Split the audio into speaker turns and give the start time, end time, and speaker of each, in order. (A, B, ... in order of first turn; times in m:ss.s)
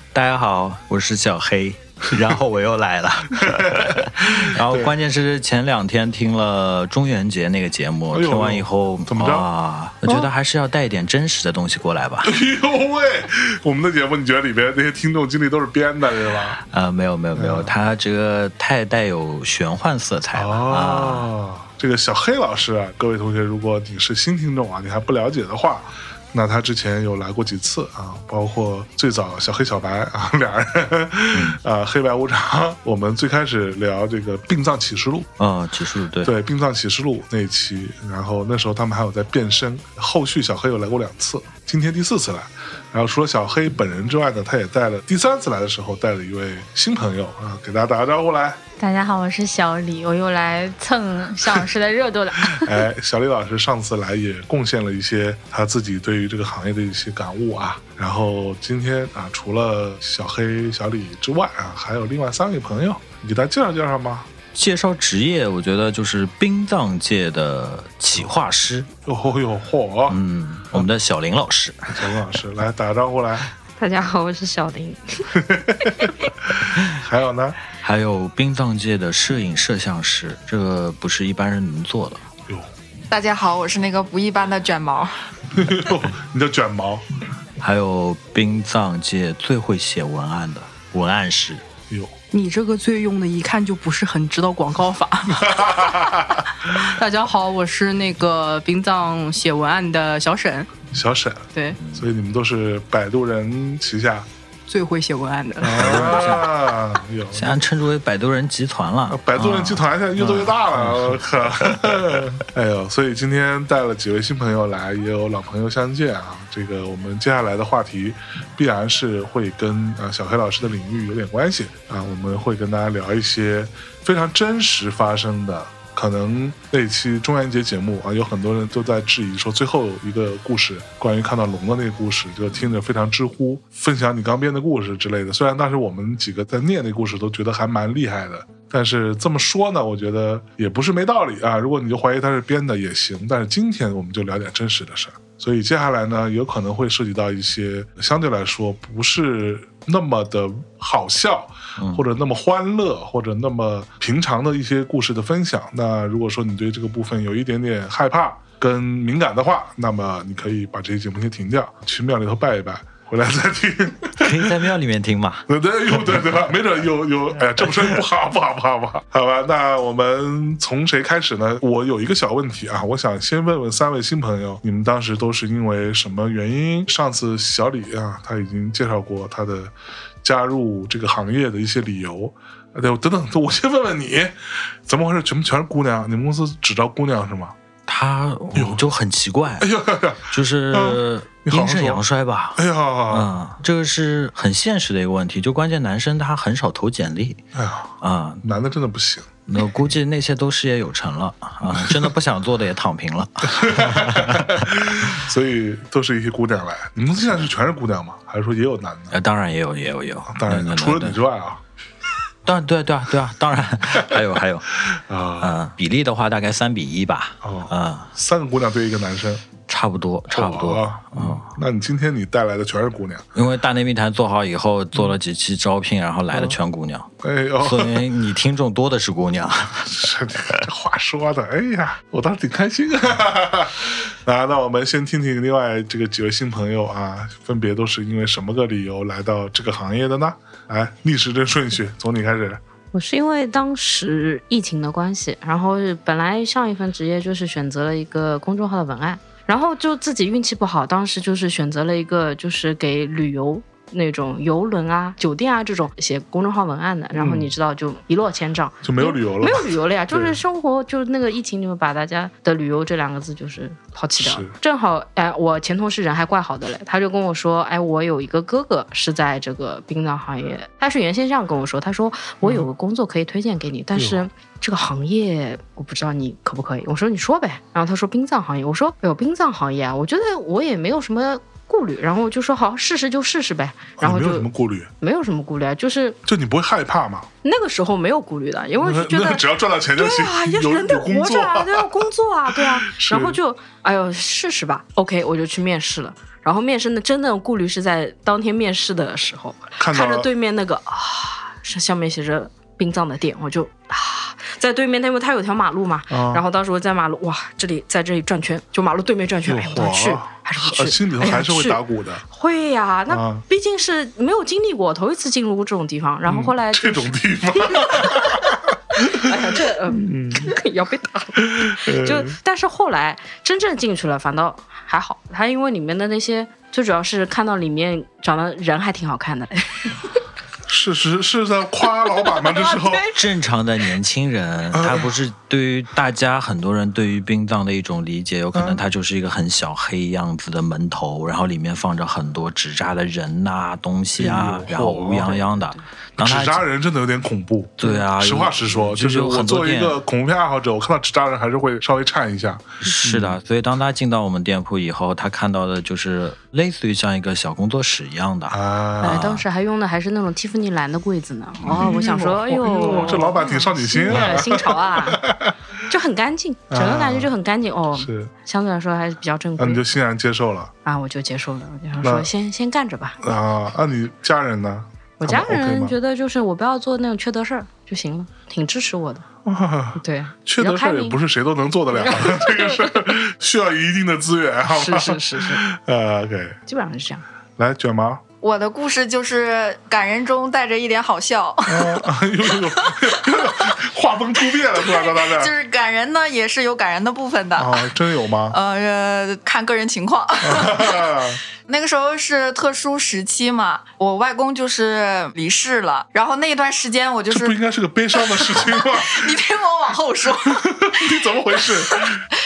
0:00.1-0:12.3 A
0:03.4-0:04.9 B
0:08.1-0:09.5 B
0:12.2-0:16.6 B
0:16.7-0:21.3 A
0:17.4-0:17.7 B
0:20.3-0:35.3 B
0:31.3-0:31.6 A
0:35.4-0:36.4 A
0:36.2-0:48.6 B
0:48.8-0:52.4 C
0:52.5-1:04.3 B
1:04.6-1:08.9 A
1:09.1-1:10.2 B
1:10.1-1:12.1 A
1:11.9-1:13.5 B
1:13.8-1:15.3 D
1:15.4-1:17.6 B
1:17.8-1:22.2 A
1:23.1-1:25.1 E
1:25.5-1:27.0 B
1:27.6-1:31.6 A
1:31.9-1:32.1 B
1:32.3-1:35.7 F
1:35.3-1:36.5 B
1:36.7-1:40.7 F
1:40.9-1:44.3 B
1:41.8-1:42.1 A
1:44.7-1:46.0 F
1:45.6-1:47.6 B
1:45.8-1:46.5 A
1:47.3-1:52.2 A
1:49.1-2:44.6 B
2:31.8-2:32.0 A
2:44.2-2:45.4 A
2:45.5-3:07.6 B
3:07.9-3:17.4 A
3:08.6-3:08.9 B
3:09.6-3:12.0 B
3:12.6-3:13.3 B
3:17.6-3:19.4 B
3:18.0-3:18.4 A
3:19.5-3:24.7 A
3:21.7-3:22.1 B
3:23.5-3:29.2 B
3:29.1-3:31.2 A
3:30.3-3:31.6 B
3:32.5-3:34.8 A
3:34.8-3:35.6 B
3:35.4-3:38.1 A
3:37.4-3:39.4 B
3:39.7-3:41.5 A
3:40.3-3:43.2 B
3:43.4-3:47.1 A
3:47.2-3:48.1 B
3:47.6-3:49.9 A
3:49.8-4:02.6 B
4:02.9-4:44.5 D
4:17.2-4:17.5 B
4:18.8-4:20.4 B
4:24.2-4:24.5 B
4:34.0-4:34.3 B
4:44.0-4:44.9 B
4:45.0-4:46.2 D
4:46.3-4:47.3 B
4:47.4-5:30.1 D
4:48.8-4:53.4 B
4:59.8-5:00.3 B
5:06.1-5:06.4 B
5:09.4-5:12.2 B
5:13.1-5:13.4 B
5:16.3-5:20.5 B
5:21.4-5:22.4 B
5:30.7-5:33.0 B
5:32.2-5:33.1 D
5:33.1-5:46.6 A
5:34.7-5:35.1 B
5:38.5-5:38.8 B
5:44.2-5:45.5 B
5:46.2-5:53.4 B
5:47.8-5:50.0 A
5:52.9-5:59.4 A
5:58.5-5:59.3 B
5:59.0-6:05.3 D
6:01.6-6:05.5 B
6:05.9-6:09.8 D
6:06.7-6:07.3 B
6:08.0-6:08.3 B
6:09.6-6:10.7 B
6:10.8-6:13.2 D
6:12.0-6:12.3 B
6:13.2-6:16.0 B
6:15.2-6:19.2 D
6:19.4-6:26.6 B
6:20.0-6:21.2 D
6:21.9-6:22.9 D
6:24.7-6:25.6 D
6:26.7-6:27.2 D
6:27.6-6:28.2 B
6:28.4-6:33.0 E
6:31.6-6:35.5 B
6:34.8-6:37.9 E
6:37.6-6:38.6 B
6:38.5-6:41.0 E
6:40.4-6:41.4 B
6:41.6-6:47.6 E
6:47.3-6:49.4 B
6:48.2-6:51.1 E
6:50.5-6:52.2 B
6:51.6-6:52.0 E